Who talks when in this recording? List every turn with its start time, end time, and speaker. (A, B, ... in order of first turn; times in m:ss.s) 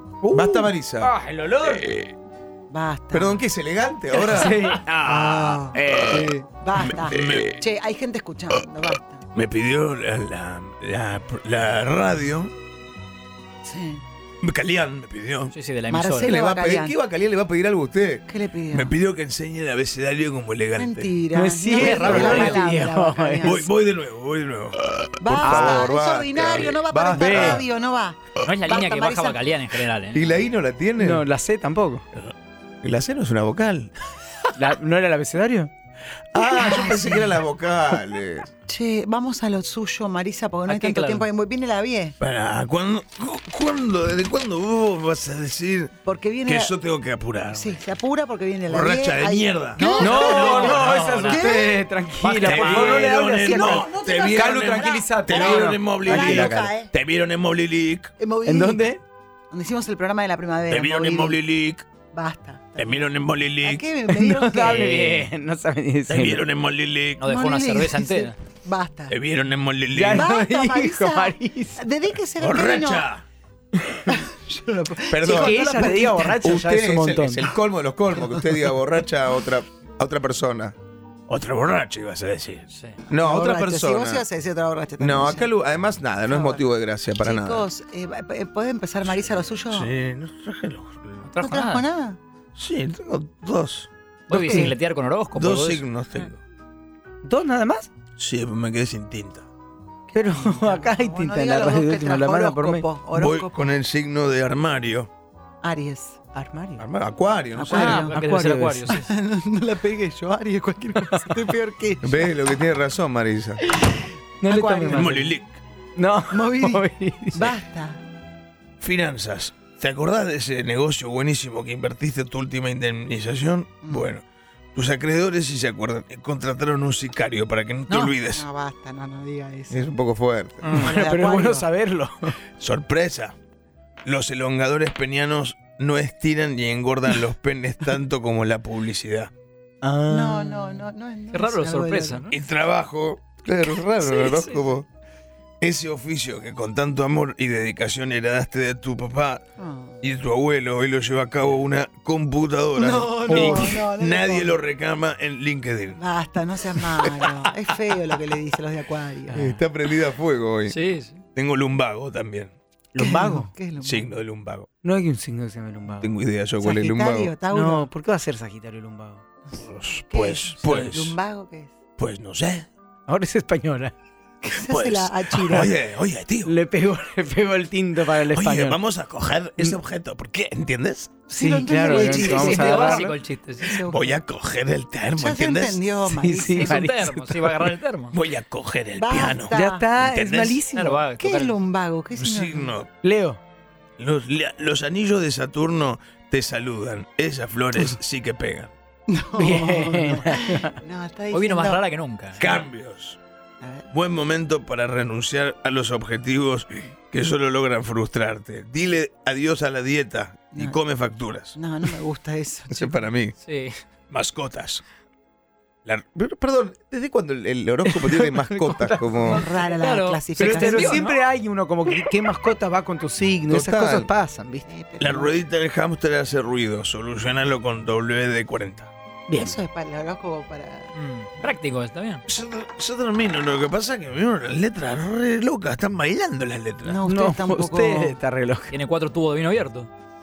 0:00.2-0:02.0 A
0:00.3-0:01.1 B
0:02.7-0:03.4 C
0:03.1-0:04.2 B
0:04.2-0:04.9 A
0:04.2-0:05.8 C
0:04.2-0:06.3 D
0:06.1-0:06.4 A
0:06.4-0:09.3 C
0:07.0-0:07.6 D
0:09.3-0:12.5 D
0:13.6-0:14.0 C
0:14.4-0:15.5 D
0:15.5-0:16.3 E
0:15.9-0:17.0 C
0:16.2-0:18.2 B
0:18.3-0:19.0 C
0:18.7-0:21.2 D
0:20.8-0:23.7 C
0:21.3-0:23.7 A
0:21.8-0:22.7 E
0:23.4-0:24.8 D
0:25.2-0:29.4 C
0:25.2-0:27.6 B
0:25.4-0:25.9 A
0:26.6-0:27.6 A
0:28.4-0:30.4 E
0:30.1-0:31.2 B
0:31.0-0:32.0 A
0:32.8-0:33.9 B
0:33.3-0:33.6 D
0:34.6-0:35.7 A
0:36.4-0:37.4 C
0:36.5-0:37.4 D
0:37.5-0:38.5 B
0:38.7-0:42.2 C
0:40.7-0:41.3 E
0:42.2-0:45.9 D
0:46.0-0:46.8 C
0:46.4-0:47.8 D
0:47.5-0:51.8 C
0:48.7-0:51.0 D
0:49.8-0:51.6 E
0:49.9-0:56.8 A
0:52.3-0:58.1 D
0:53.3-0:56.9 C
0:58.2-0:58.9 C
0:58.4-0:59.0 A
0:59.5-1:01.4 C
1:00.7-1:01.9 D
1:02.0-1:03.0 C
1:02.8-1:03.9 D
1:03.6-1:04.9 C
1:04.1-1:06.5 A
1:04.6-1:05.3 E
1:06.1-1:07.3 D
1:07.2-1:08.4 E
1:07.3-1:09.2 C
1:09.1-1:10.3 D
1:09.9-1:11.8 A
1:10.1-1:13.1 C
1:12.4-1:13.2 D
1:14.1-1:16.5 C
1:15.1-1:15.7 B
1:15.2-1:17.5 A
1:16.4-1:20.8 B
1:18.1-1:18.5 C
1:21.3-1:22.7 D
1:22.7-1:23.0 E
1:23.1-1:24.2 B
1:23.1-1:25.5 C
1:25.0-1:27.7 B
1:26.3-1:26.6 C
1:27.2-1:29.9 C
1:29.0-1:31.3 D
1:31.2-1:31.8 E
1:31.4-1:32.2 C
1:32.6-1:33.9 D
1:34.3-1:34.8 C
1:34.3-1:35.8 E
1:34.3-1:34.7 A
1:35.3-1:36.4 D
1:37.2-1:37.9 A
1:38.2-1:39.5 D
1:40.1-1:42.8 A
1:40.1-1:43.6 C
1:43.1-1:45.1 D
1:45.6-1:46.2 C
1:46.3-1:46.8 A
1:46.8-1:47.8 D
1:47.6-1:48.2 C
1:47.7-1:48.9 A
1:47.7-1:49.1 E
1:48.9-1:52.3 C
1:51.0-1:51.5 A
1:52.0-1:53.6 B
1:53.6-1:55.2 C
1:54.4-1:55.4 A
1:54.9-1:55.6 D
1:56.0-1:57.5 A
1:56.3-1:56.8 C
1:57.3-1:58.0 C
1:58.8-2:08.5 D
2:03.8-2:04.2 C
2:07.9-2:09.9 C
2:09.7-2:10.7 B
2:10.6-2:11.0 E
2:10.7-2:12.4 A
2:10.7-2:11.7 C
2:12.6-2:13.4 D
2:14.0-2:19.3 D
2:19.8-2:20.9 A
2:20.1-2:22.3 C
2:21.3-2:22.3 E
2:22.3-2:23.4 D
2:23.4-2:24.9 B
2:24.0-2:24.7 E
2:25.6-2:29.4 D
2:29.6-2:30.0 C
2:30.0-2:36.0 D
2:32.7-2:34.6 C
2:33.3-2:33.6 A
2:36.0-2:39.5 C
2:37.0-2:37.4 D
2:39.3-2:39.6 A
2:39.4-2:40.7 B
2:40.7-2:41.2 E
2:41.4-2:42.5 D
2:42.9-2:43.5 A
2:43.0-2:44.1 C
2:43.8-2:44.7 D
2:44.8-2:46.1 A
2:46.0-2:46.9 D
2:46.6-2:47.9 C
2:46.9-2:47.3 B
2:47.5-2:49.2 A
2:49.6-2:51.2 D
2:50.1-2:51.8 C
2:52.0-2:52.7 D
2:53.1-2:53.9 A
2:54.4-2:55.9 C
2:54.7-2:56.5 D
2:55.5-2:55.8 A
2:56.4-2:58.8 A
2:58.2-3:01.2 D
3:01.3-3:04.2 C
3:01.3-3:03.2 A
3:01.8-3:03.8 E
3:03.8-3:05.9 D
3:05.1-3:06.8 C
3:06.1-3:07.7 A
3:06.6-3:08.2 E
3:08.1-3:10.6 D
3:09.0-3:10.0 C
3:09.5-3:11.0 A
3:10.7-3:11.6 E
3:11.2-3:12.7 C
3:12.1-3:12.9 D
3:13.0-3:13.4 A
3:14.0-3:18.7 D
3:19.1-3:21.8 C
3:19.4-3:20.8 A
3:21.3-3:22.4 E
3:22.4-3:23.2 D
3:23.6-3:23.9 C
3:23.9-3:31.6 D
3:30.5-3:30.8 C
3:31.6-3:33.0 C
3:32.7-3:33.4 D
3:33.4-3:33.7 E
3:34.1-3:34.8 D
3:36.2-3:39.4 B
3:37.9-3:39.7 A
3:39.2-3:41.0 C
3:39.7-3:41.2 E
3:40.4-3:44.6 A
3:43.5-3:44.1 B
3:44.7-3:45.4 C
3:45.0-3:48.9 D
3:49.3-3:49.6 A
3:49.3-3:50.9 C
3:51.0-3:52.2 E
3:52.3-3:57.0 D
3:56.8-3:58.2 C
3:57.0-3:58.8 A
3:58.7-3:59.9 E